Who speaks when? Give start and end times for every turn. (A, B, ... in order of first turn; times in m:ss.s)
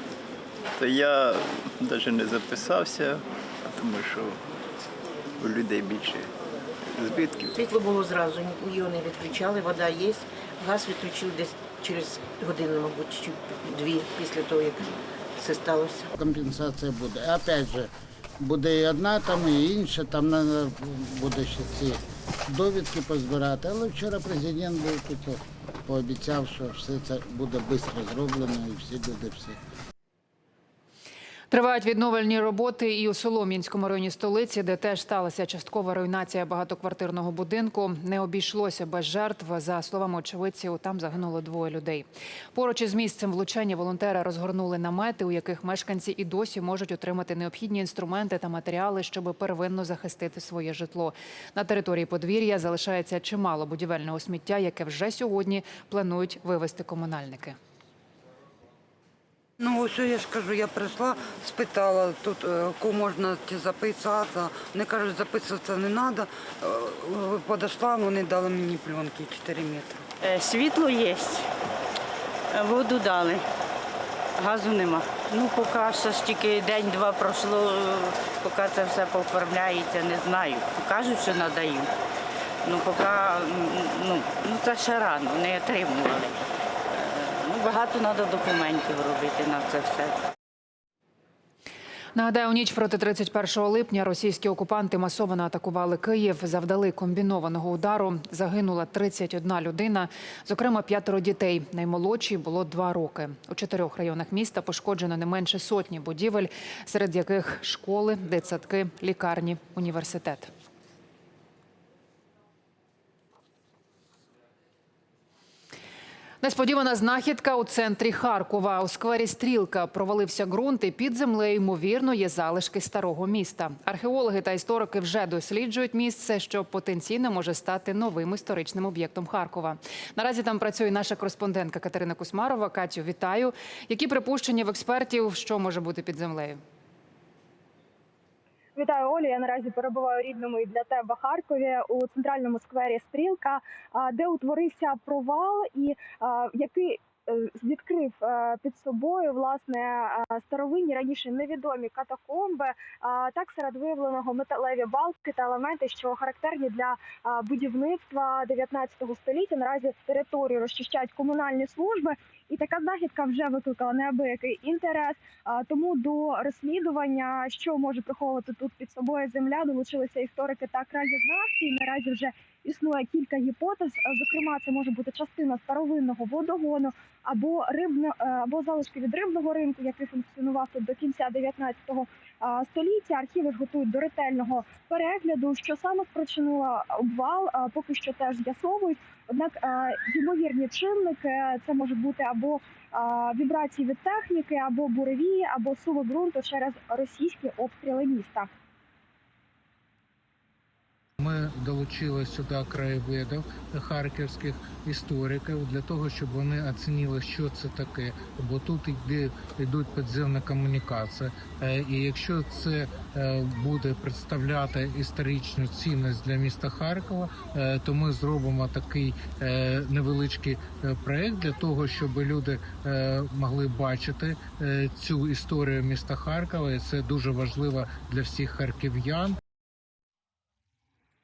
0:00.8-0:04.4 A
0:05.4-0:06.3 A
0:06.9-0:07.6 A
0:07.6-0:16.1 B
0:16.2-0:29.6 C
0:31.5-0:57.6 D
0:59.6-1:10.0 E
1:10.2-1:11.5 F
1:12.5-1:13.4 F
1:14.4-1:21.9 F
1:22.6-1:26.4 F
1:26.9-1:30.2 F
1:32.2-1:50.5 D
1:56.4-2:16.6 D
2:18.8-3:18.5 G
3:21.2-3:49.4 H